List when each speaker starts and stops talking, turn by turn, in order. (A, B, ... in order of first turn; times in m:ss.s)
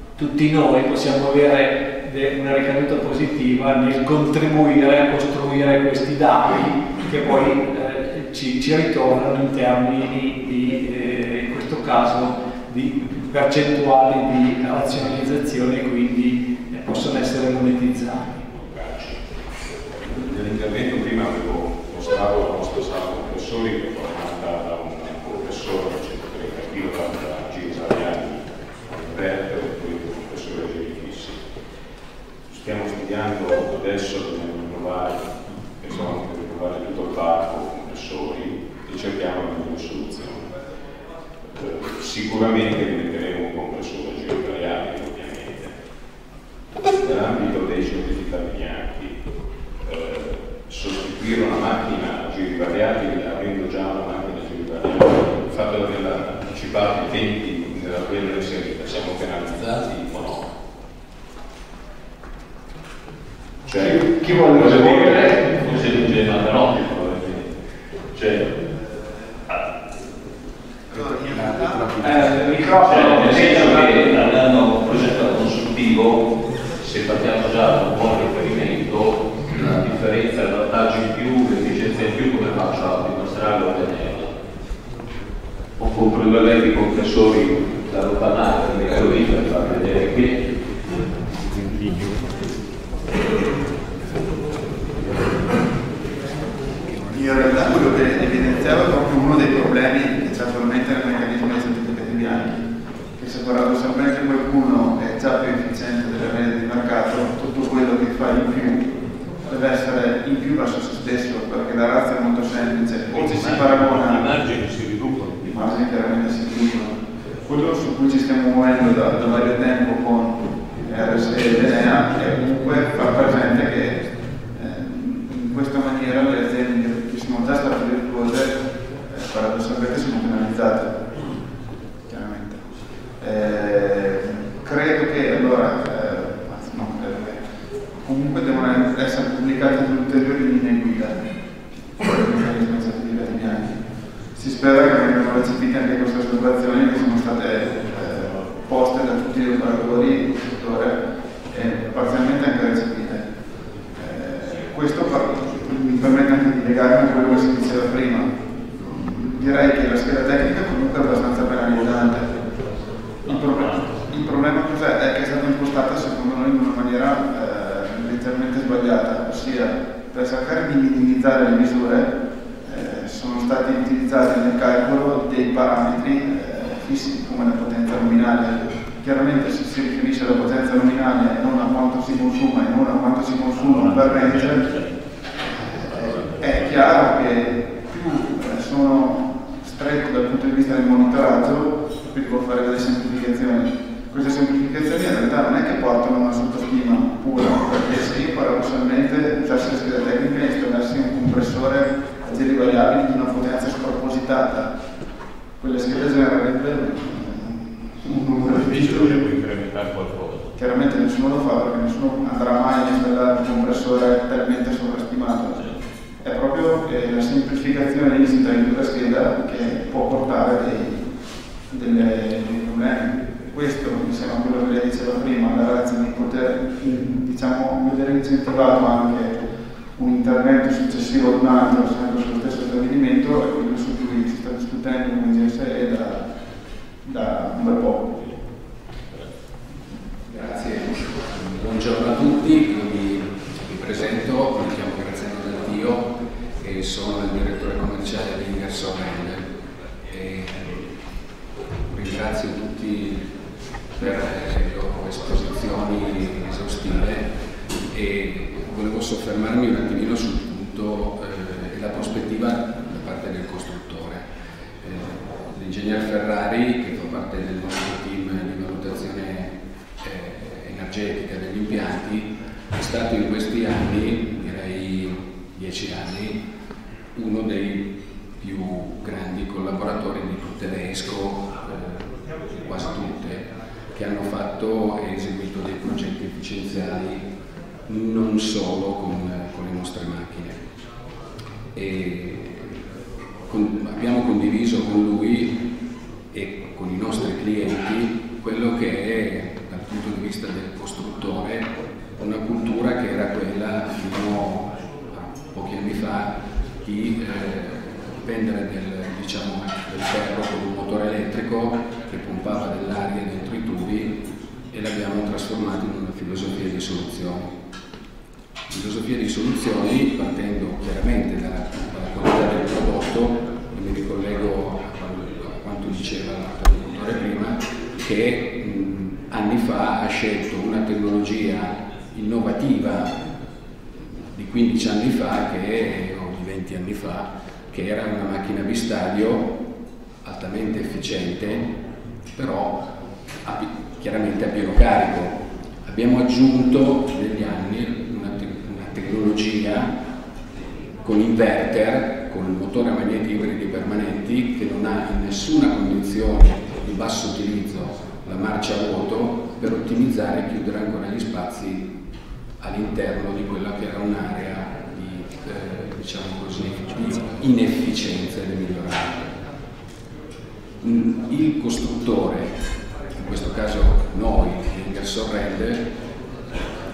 0:00.2-0:18.3 A
0:18.5-0:19.3 B
0:20.0-0:31.4 B
0:32.5-0:40.5 B
0:41.6-0:45.7 B
0:47.0-0:49.2 B
0:49.8-1:00.4 B
1:03.6-1:07.5 B
1:03.8-1:05.6 A
1:08.1-1:08.5 B
1:10.9-1:11.9 C
1:12.0-1:14.1 A
1:12.8-1:16.3 B
1:16.8-1:24.3 B
1:25.8-1:30.4 B
1:37.1-1:42.6 C
1:43.2-1:54.4 C
1:53.1-1:55.4 B
1:55.4-2:10.9 C
2:12.1-2:12.6 C
2:13.2-2:17.4 C
2:17.9-2:21.2 C
2:22.0-2:31.0 C
2:31.5-2:33.3 C
2:33.9-2:42.4 C
2:43.2-2:52.1 C
2:43.6-2:43.8 B
2:52.6-3:04.7 C
3:03.7-3:05.0 B
3:05.4-3:24.7 C
3:06.0-3:06.6 B
3:25.6-3:29.2 C
3:28.4-3:30.5 B
3:30.6-3:35.6 C
3:36.2-3:41.1 C
3:41.7-3:49.4 C
3:50.0-3:56.2 C
3:57.0-3:58.2 C
4:00.2-4:09.5 D
4:10.1-4:10.8 D
4:11.9-4:13.3 D
4:13.9-4:24.2 D
4:24.8-4:36.4 D
4:37.1-4:47.3 D
4:47.8-4:50.6 D
4:51.7-4:52.8 D
4:53.4-4:55.6 D
4:56.3-5:17.5 D
5:18.7-5:33.2 D
5:34.1-5:39.6 D
5:40.2-5:41.8 D
5:42.3-5:42.8 D
5:43.4-5:49.9 D
5:51.0-6:01.9 D
6:02.6-6:09.3 D
6:10.8-6:12.5 D
6:13.1-6:15.9 D